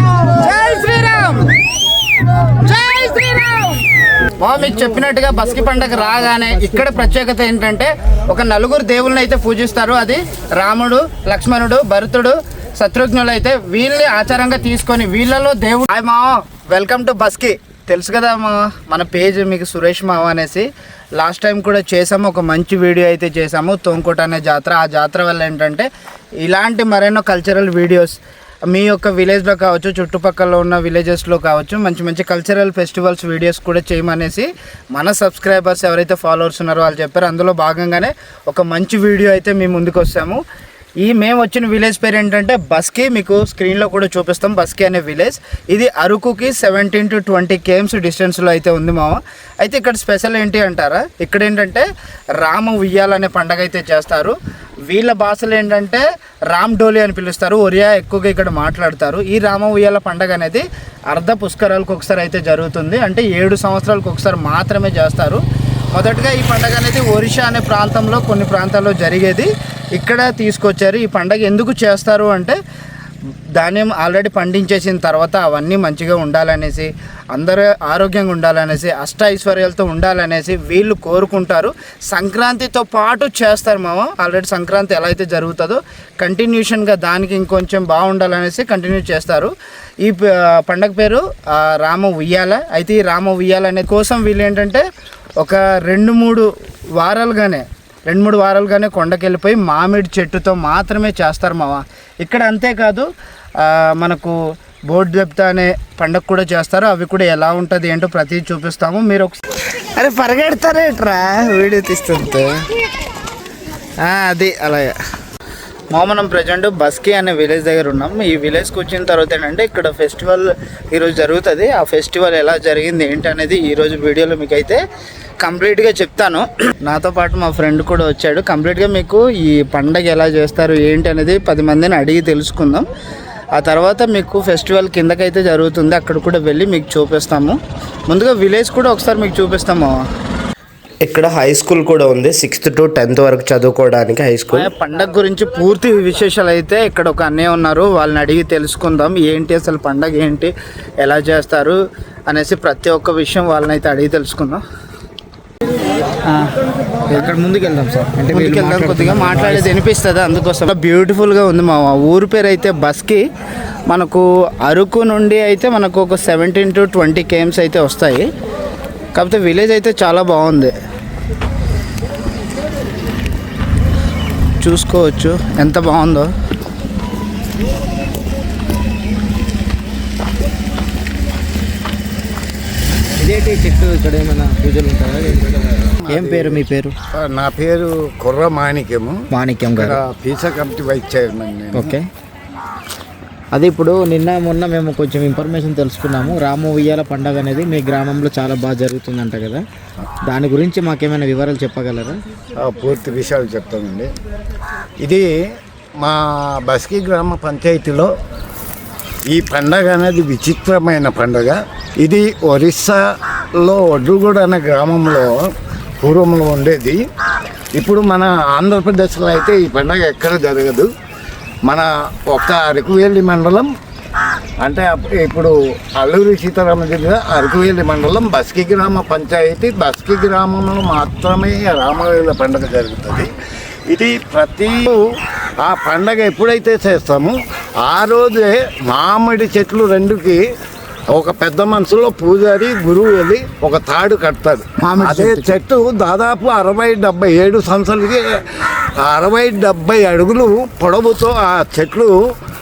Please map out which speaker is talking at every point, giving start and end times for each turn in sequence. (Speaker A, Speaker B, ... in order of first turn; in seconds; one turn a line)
Speaker A: 0.2-1.5
Speaker A: 2.6-3.8
Speaker A: 4.4-25.9
Speaker A: 26.4-28.2
Speaker A: 28.7-40.4
Speaker A: 41.0-51.9
Speaker A: 52.4-54.4
Speaker A: 54.9-65.4
Speaker A: 65.9-72.6
Speaker A: 73.6-94.8
Speaker A: 95.4-103.1
Speaker A: 103.6-104.4
Speaker A: 104.9-112.6
Speaker A: 114.0-114.9
Speaker A: 115.9-124.8
Speaker A: 125.4-132.9
Speaker A: 133.6-137.6
Speaker A: 138.1-139.9
Speaker B: 141.0-144.7
Speaker A: 144.5-154.6
Speaker C: 157.1-159.7
Speaker A: 158.3-163.2
Speaker A: 163.9-168.3
Speaker A: 169.2-170.7
Speaker A: 174.6-176.3
Speaker C: 183.2-186.9
Speaker D: 186.1-189.2
Speaker C: 189.3-190.0
Speaker D: 189.7-192.0
Speaker C: 191.7-192.1
Speaker C: 193.5-199.6
Speaker C: 200.2-202.2
Speaker D: 202.6-204.1
Speaker D: 205.0-205.3
Speaker D: 206.0-208.1
Speaker D: 209.3-213.0
Speaker D: 213.6-217.0
Speaker D: 217.8-220.9
Speaker D: 221.7-223.7
Speaker D: 224.6-233.3
Speaker D: 233.9-235.0
Speaker D: 235.6-240.4
Speaker D: 241.1-252.2
Speaker A: 244.8-245.6